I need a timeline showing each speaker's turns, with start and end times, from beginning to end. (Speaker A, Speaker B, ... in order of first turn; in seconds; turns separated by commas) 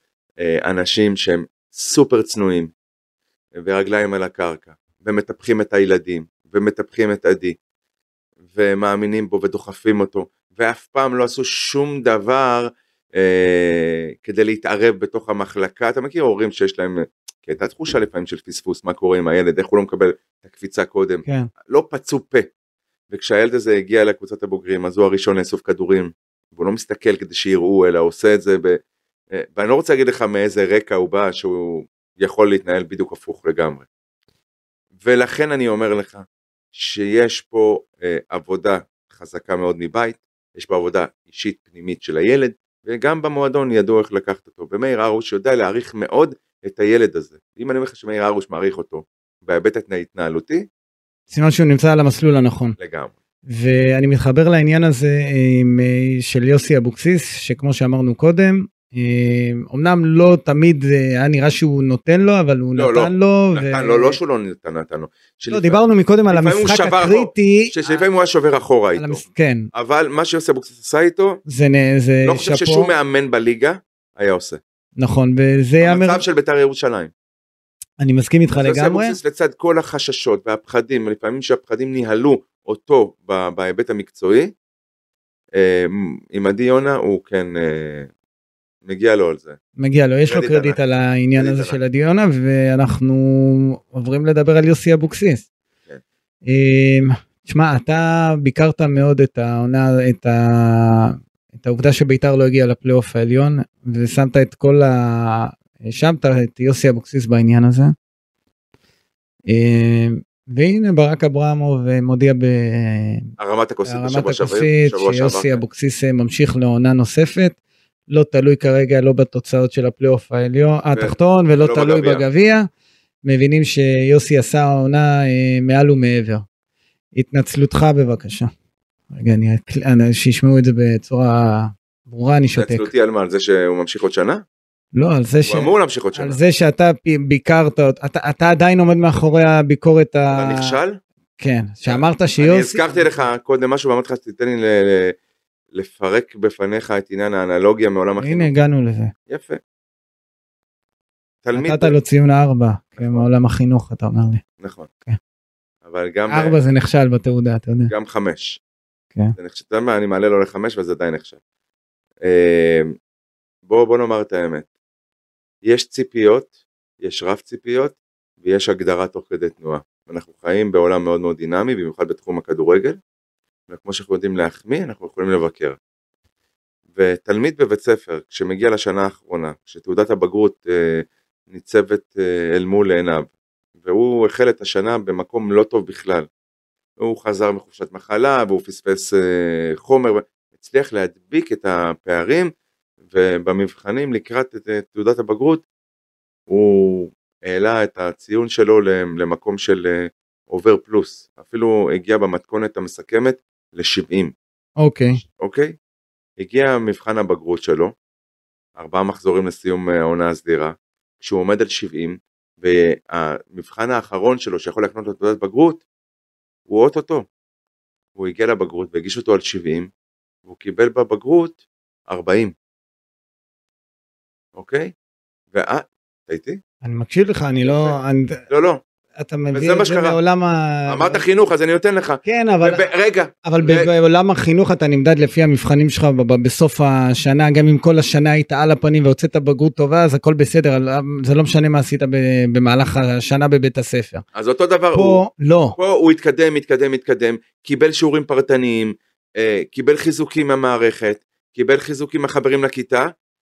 Speaker A: 0.4-2.7, Speaker A: 3.6-7.6, Speaker A: 8.5-22.5, Speaker B: 21.2-21.5, Speaker A: 23.1-28.8, Speaker A: 29.3-33.9, Speaker A: 35.0-50.7, Speaker B: 51.3-52.8, Speaker A: 52.8-53.1, Speaker B: 53.5-64.2, Speaker A: 62.8-69.2, Speaker B: 65.5-68.0, Speaker B: 69.0-69.7, Speaker A: 69.7-71.4, Speaker B: 71.5-72.9, Speaker A: 72.2-74.6, Speaker B: 75.0-76.2, Speaker A: 75.8-77.1, Speaker B: 78.0-79.2, Speaker A: 78.6-84.5, Speaker A: 85.5-88.1, Speaker A: 88.8-89.6, Speaker B: 89.8-95.5, Speaker A: 90.3-90.8, Speaker A: 91.4-91.8, Speaker B: 96.5-107.9, Speaker B: 109.5-113.3, Speaker A: 113.4-115.6, Speaker B: 113.9-117.5, Speaker B: 118.1-122.7, Speaker A: 120.9-122.2, Speaker B: 123.2-126.5, Speaker B: 127.2-128.5, Speaker B: 129.1-132.9, Speaker A: 132.6-134.4, Speaker B: 134.9-140.8, Speaker A: 135.5-136.4, Speaker A: 140.3-141.0, Speaker B: 141.4-143.0, Speaker A: 141.9-145.2, Speaker A: 145.7-148.5, Speaker B: 148.2-149.1, Speaker A: 149.3-149.6, Speaker A: 151.4-151.9, Speaker B: 151.6-154.4, Speaker A: 153.0-153.3, Speaker A: 154.6-154.9, Speaker A: 155.8-156.6, Speaker B: 156.3-157.9, Speaker A: 157.9-158.6, Speaker A: 159.4-161.4, Speaker A: 162.2-162.9, Speaker A: 163.7-164.7, Speaker A: 165.6-166.5, Speaker A: 167.0-173.0, Speaker A: 173.7-175.8, Speaker A: 176.9-183.3, Speaker A: 183.8-186.3, Speaker A: 187.0-192.5, Speaker A: 193.1-195.6, Speaker A: 196.5-204.3, Speaker B: 204.8-205.2, Speaker A: 205.2-205.8, Speaker A: 206.4-207.9, Speaker A: 208.8-215.8, Speaker A: 216.7-217.3, Speaker A: 218.2-219.9, Speaker A: 220.4-221.6, Speaker A: 222.1-222.5, Speaker A: 224.6-224.9, Speaker A: 225.5-226.6, Speaker B: 226.8-228.4, Speaker A: 227.6-228.0, Speaker A: 228.5-228.8, Speaker B: 229.2-231.2, Speaker A: 229.5-230.2, Speaker A: 230.9-233.9, Speaker B: 232.2-232.8, Speaker B: 233.4-244.2, Speaker A: 244.3-245.2, Speaker B: 244.9-245.8, Speaker A: 245.8-253.1